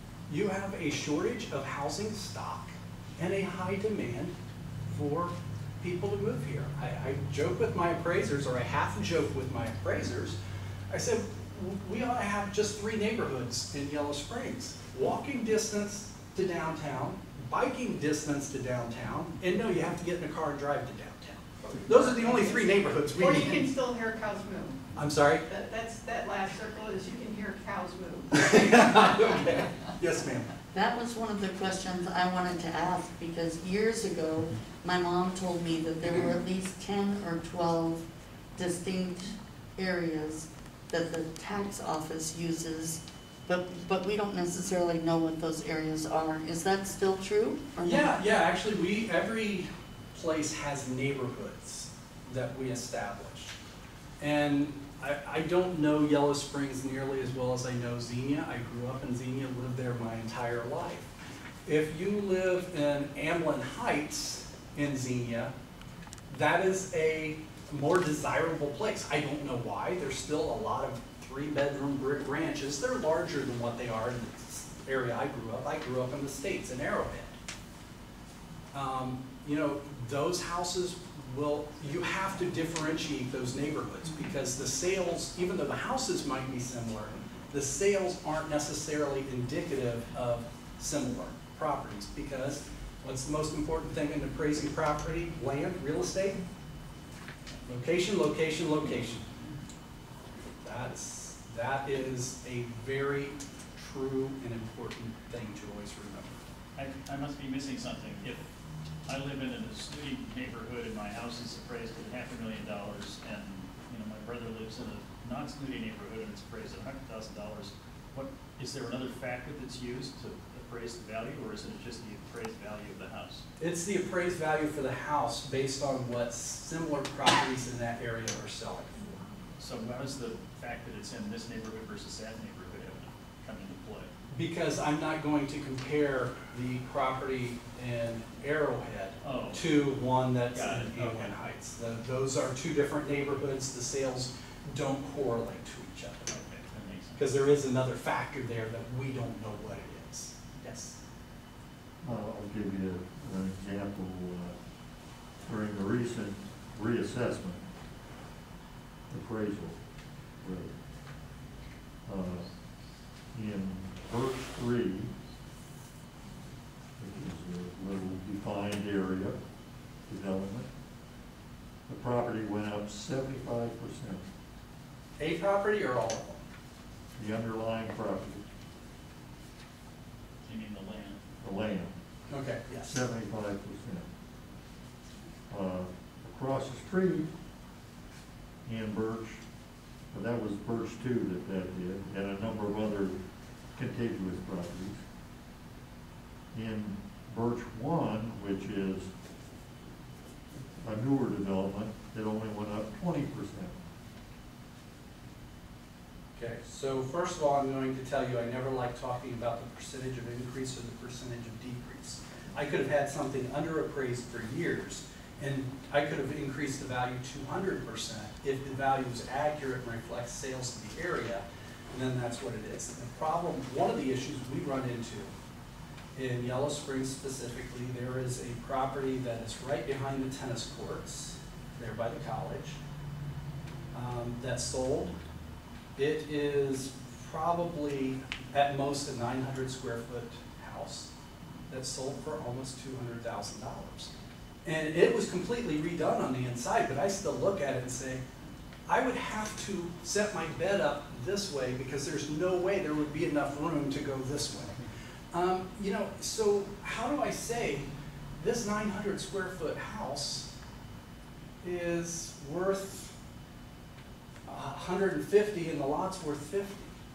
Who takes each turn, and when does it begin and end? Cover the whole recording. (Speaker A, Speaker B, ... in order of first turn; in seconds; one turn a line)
Speaker A: 0.3-4.3
Speaker A: 4.9-10.4
Speaker A: 10.9-23.7
Speaker B: 21.9-24.9
Speaker A: 24.9-25.4
Speaker B: 25.4-29.2
Speaker A: 28.3-30.5
Speaker C: 30.7-48.1
Speaker A: 47.8-53.5
Speaker A: 54.2-61.1
Speaker A: 61.6-65.5
Speaker A: 66.3-77.3
Speaker A: 78.7-96.4
Speaker A: 97.7-99.2
Speaker A: 100.6-106.4
Speaker D: 106.8-108.4
Speaker D: 109.0-123.4
Speaker A: 123.6-129.1
Speaker D: 129.6-134.1
Speaker A: 134.3-146.4
Speaker D: 139.2-139.6
Speaker D: 140.5-141.4
Speaker D: 146.3-147.2
Speaker A: 147.2-151.0
Speaker E: 152.0-154.5
Speaker E: 155.4-157.6
Speaker E: 159.1-159.8
Speaker E: 160.4-160.8
Speaker E: 162.0-162.5
Speaker E: 163.3-165.1
Speaker E: 167.0-169.4
Speaker E: 170.1-170.7
Speaker E: 171.9-174.2
Speaker A: 175.2-176.4
Speaker E: 177.2-178.4
Speaker D: 180.4-181.2
Speaker E: 181.4-181.9
Speaker A: 182.3-183.0
Speaker E: 182.9-184.1
Speaker E: 185.5-187.3
Speaker E: 188.7-189.4
Speaker E: 190.1-193.2
Speaker E: 193.7-195.0
Speaker E: 196.5-199.1
Speaker E: 200.7-203.8
Speaker A: 206.4-225.3
Speaker A: 226.1-232.8
Speaker A: 233.9-235.1
Speaker A: 235.9-241.1
Speaker A: 241.7-244.1
Speaker A: 244.6-248.2
Speaker A: 248.9-260.5
Speaker A: 261.6-263.1
Speaker A: 264.4-266.9